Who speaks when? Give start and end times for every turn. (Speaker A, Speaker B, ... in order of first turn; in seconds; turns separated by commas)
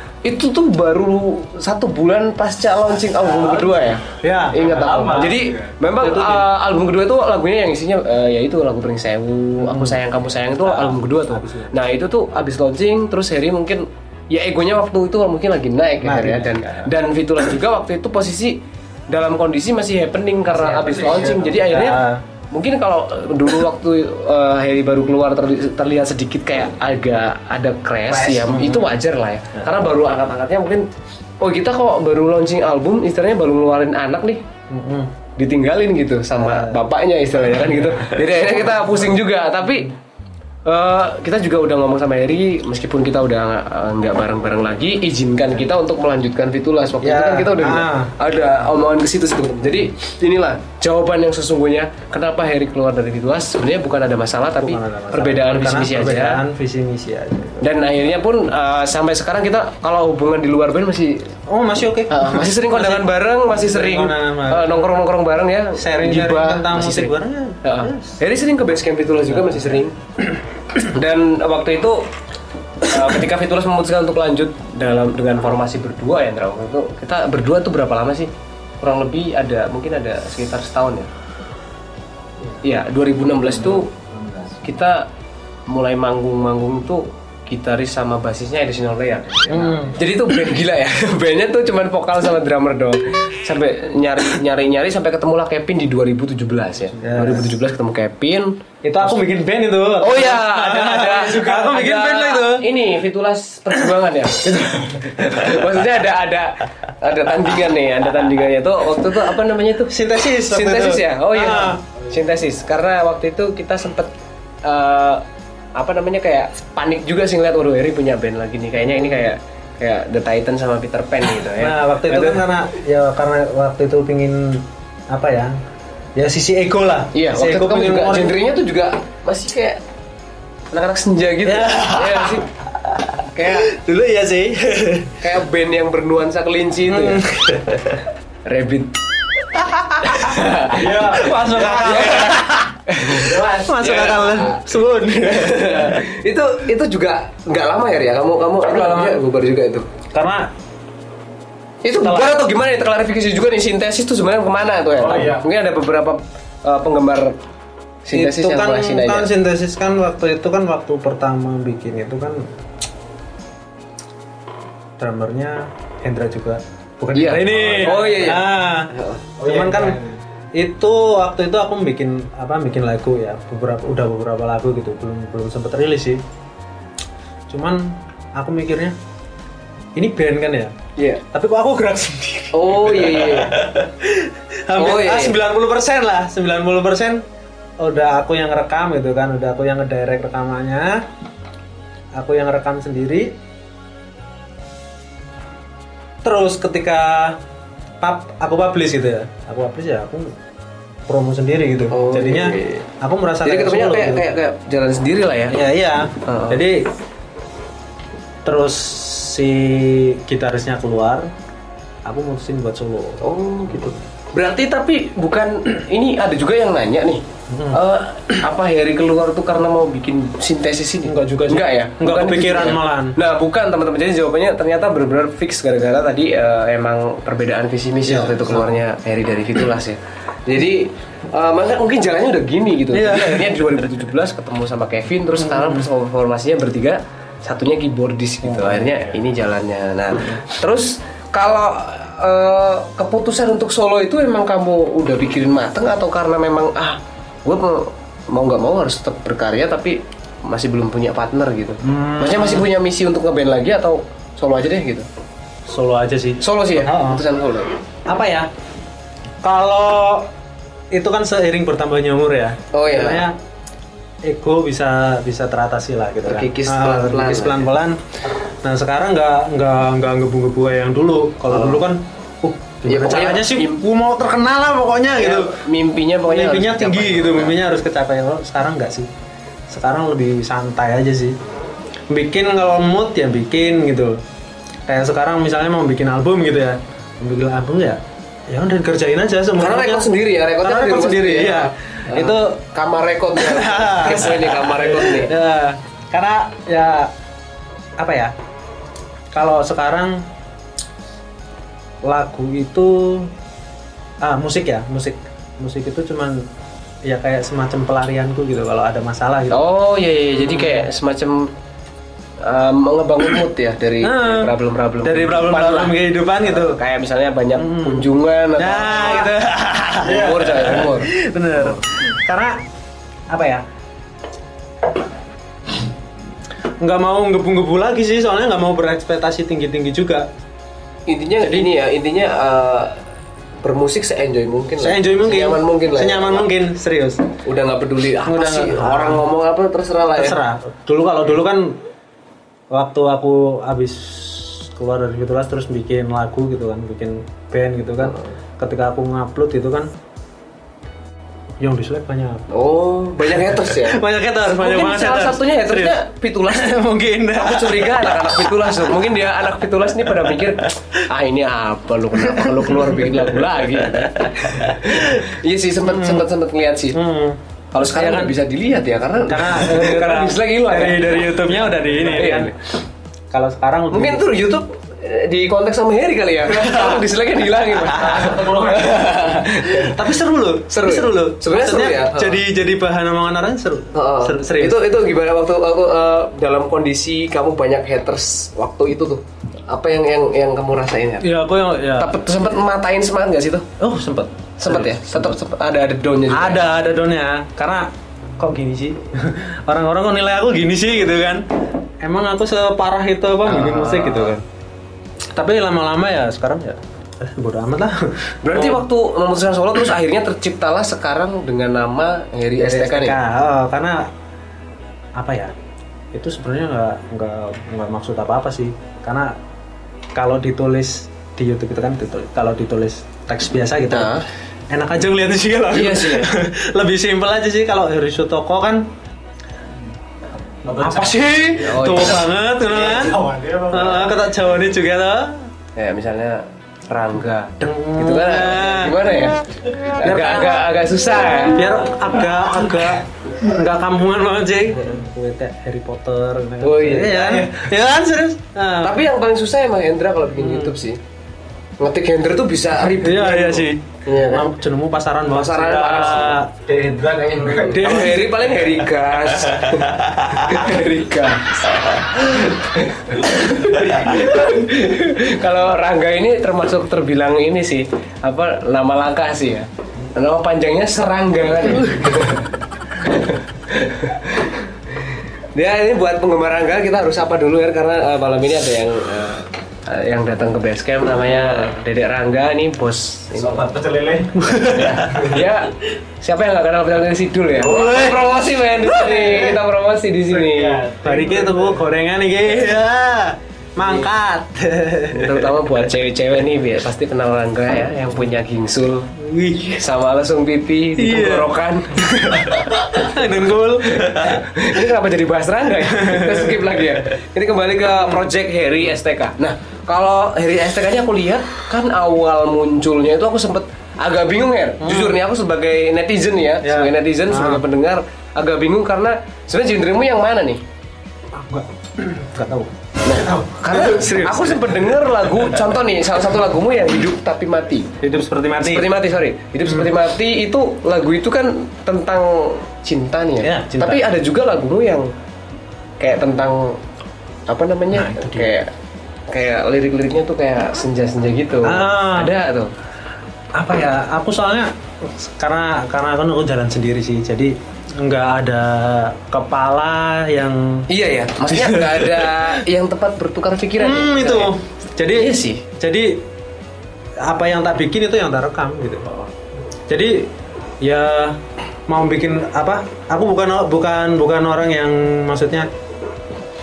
Speaker A: 0.2-30.9, Speaker B: 3.4-3.8, Speaker C: 4.2-6.5, Speaker B: 4.5-5.7, Speaker C: 9.6-11.7, Speaker C: 16.0-16.9, Speaker B: 20.6-21.6, Speaker C: 21.6-22.2, Speaker B: 28.1-28.5, Speaker C: 28.5-28.9, Speaker A: 31.4-34.4, Speaker C: 34.7-35.1, Speaker A: 35.4-39.9, Speaker C: 36.4-36.8, Speaker A: 40.7-56.4, Speaker C: 47.0-48.2, Speaker C: 54.6-57.7, Speaker A: 57.6-61.3, Speaker C: 61.5-64.9, Speaker A: 62.1-70.0, Speaker C: 65.8-68.2, Speaker C: 69.3-69.8, Speaker A: 70.8-72.1, Speaker A: 72.8-78.3, Speaker A: 78.8-81.1, Speaker A: 82.6-83.9, Speaker B: 84.1-84.6, Speaker A: 84.6-85.1, Speaker A: 85.7-99.1, Speaker C: 89.5-90.0, Speaker C: 97.0-97.6, Speaker C: 98.8-102.7, Speaker A: 100.0-114.1, Speaker C: 109.9-111.8, Speaker A: 114.6-115.2, Speaker A: 115.8-122.5, Speaker C: 118.8-119.2, Speaker C: 121.6-125.6, Speaker C: 126.2-128.4, Speaker A: 127.1-129.8, Speaker A: 130.7-132.5, Speaker C: 131.4-135.2, Speaker A: 133.3-133.7, Speaker A: 135.2-137.3, Speaker C: 136.9-138.1, Speaker A: 138.4-139.0, Speaker C: 139.7-142.7, Speaker A: 140.0-149.9, Speaker B: 140.7-142.1, Speaker B: 143.1-144.1, Speaker C: 143.6-146.1, Speaker C: 148.7-149.2, Speaker C: 150.1-150.5, Speaker A: 151.8-157.4, Speaker C: 152.0-152.4, Speaker B: 155.0-155.4, Speaker A: 158.1-159.3, Speaker C: 158.1-162.5, Speaker C: 165.0-170.0, Speaker A: 167.2-169.3, Speaker B: 169.4-170.1, Speaker C: 170.6-176.2, Speaker C: 177.5-179.0, Speaker C: 180.0-180.7, Speaker C: 181.3-187.2, Speaker A: 182.5-183.6, Speaker A: 184.8-185.4, Speaker C: 187.8-191.1, Speaker C: 192.2-193.3, Speaker C: 196.2-197.4, Speaker C: 198.0-200.4, Speaker C: 201.1-204.3, Speaker A: 201.9-202.9, Speaker A: 203.4-205.6, Speaker C: 205.5-206.9, Speaker A: 206.2-206.6, Speaker C: 208.4-211.3, Speaker C: 212.1-213.2, Speaker A: 213.2-255.1, Speaker C: 217.5-217.8, Speaker C: 221.1-223.2, Speaker C: 228.1-228.8, Speaker C: 232.9-233.9, Speaker C: 235.4-235.9, Speaker C: 238.4-239.0, Speaker C: 251.8-252.7, Speaker C: 255.7-257.2, Speaker A: 256.4-257.8, Speaker C: 258.1-258.5, Speaker C: 259.4-260.3, Speaker C: 260.9-263.4, Speaker A: 262.7-263.3, Speaker C: 264.3-268.0, Speaker A: 266.2-267.7, Speaker C: 268.6-275.6, Speaker A: 271.5-271.8, Speaker A: 272.9-273.8, Speaker A: 275.1-277.6, Speaker C: 276.3-279.1, Speaker C: 279.7-281.4, Speaker C: 282.1-284.2, Speaker C: 284.9-292.6, Speaker A: 289.6-295.4, Speaker C: 293.4-297.1, Speaker C: 298.0-298.3, Speaker C: 299.3-300.3, Speaker C: 302.0-303.3, Speaker C: 304.2-306.5, Speaker C: 307.1-309.6, Speaker A: 309.5-311.5, Speaker C: 310.4-310.9, Speaker A: 312.4-319.3, Speaker C: 314.0-316.8, Speaker C: 317.6-322.6, Speaker A: 320.0-321.8, Speaker C: 323.3-323.6, Speaker C: 326.8-330.3, Speaker A: 331.1-333.0, Speaker C: 331.4-331.7, Speaker A: 333.6-336.5, Speaker C: 334.8-337.2, Speaker A: 337.4-340.4, Speaker C: 338.2-339.2, Speaker C: 340.2-341.8, Speaker C: 342.7-349.9, Speaker A: 348.0-348.3, Speaker C: 351.6-352.5, Speaker A: 352.5-354.0, Speaker C: 353.3-359.1, Speaker A: 354.5-356.7, Speaker A: 357.4-367.0, Speaker C: 360.1-360.6, Speaker C: 362.2-365.3, Speaker C: 365.8-366.3, Speaker C: 366.9-368.4, Speaker A: 367.7-372.6, Speaker C: 369.2-372.6, Speaker C: 373.3-374.4, Speaker A: 373.9-380.2, Speaker C: 376.5-377.1, Speaker C: 378.1-378.4, Speaker B: 378.2-379.0, Speaker C: 379.1-385.0, Speaker A: 380.7-382.4, Speaker A: 383.9-391.3, Speaker C: 391.2-392.2, Speaker A: 392.0-393.7, Speaker C: 393.8-395.4, Speaker A: 394.6-396.6, Speaker C: 396.3-401.5, Speaker C: 402.0-404.4, Speaker A: 403.4-404.4, Speaker C: 405.3-408.9, Speaker A: 408.4-413.2, Speaker C: 412.6-414.1, Speaker C: 415.2-415.5, Speaker C: 416.1-419.4, Speaker C: 420.1-424.2, Speaker A: 423.9-424.2, Speaker C: 424.7-428.9, Speaker A: 425.7-426.3, Speaker B: 430.6-431.9, Speaker C: 430.6-435.5, Speaker A: 431.6-432.2, Speaker B: 432.8-434.2, Speaker A: 435.8-441.8, Speaker C: 437.6-439.1, Speaker C: 439.9-440.7, Speaker C: 441.5-449.0, Speaker A: 446.6-447.5, Speaker A: 448.8-451.0, Speaker C: 450.4-450.8, Speaker A: 451.8-454.5, Speaker C: 452.8-456.5, Speaker A: 455.3-456.4, Speaker B: 456.6-458.7, Speaker A: 457.5-483.7, Speaker C: 457.8-458.2, Speaker B: 483.4-485.4, Speaker C: 484.4-485.4, Speaker A: 484.7-490.8, Speaker C: 487.6-488.2, Speaker B: 488.9-489.6, Speaker B: 490.3-491.8, Speaker C: 491.0-495.9, Speaker A: 495.1-499.1, Speaker C: 499.1-499.8, Speaker A: 499.8-503.3, Speaker C: 501.0-504.8, Speaker A: 503.8-520.6, Speaker C: 505.8-506.9, Speaker C: 507.9-508.2, Speaker C: 514.8-515.2, Speaker C: 516.6-517.6, Speaker C: 521.3-524.9, Speaker A: 523.0-527.9, Speaker C: 528.0-528.9, Speaker A: 528.6-535.1, Speaker C: 533.4-534.0, Speaker A: 536.0-536.8, Speaker A: 537.5-538.7, Speaker C: 537.9-538.5, Speaker A: 539.3-542.7, Speaker C: 541.6-542.3, Speaker C: 543.5-550.9, Speaker A: 550.9-554.5, Speaker C: 551.5-552.5, Speaker C: 553.8-556.3, Speaker A: 555.1-555.6, Speaker C: 557.2-559.1, Speaker C: 559.9-565.7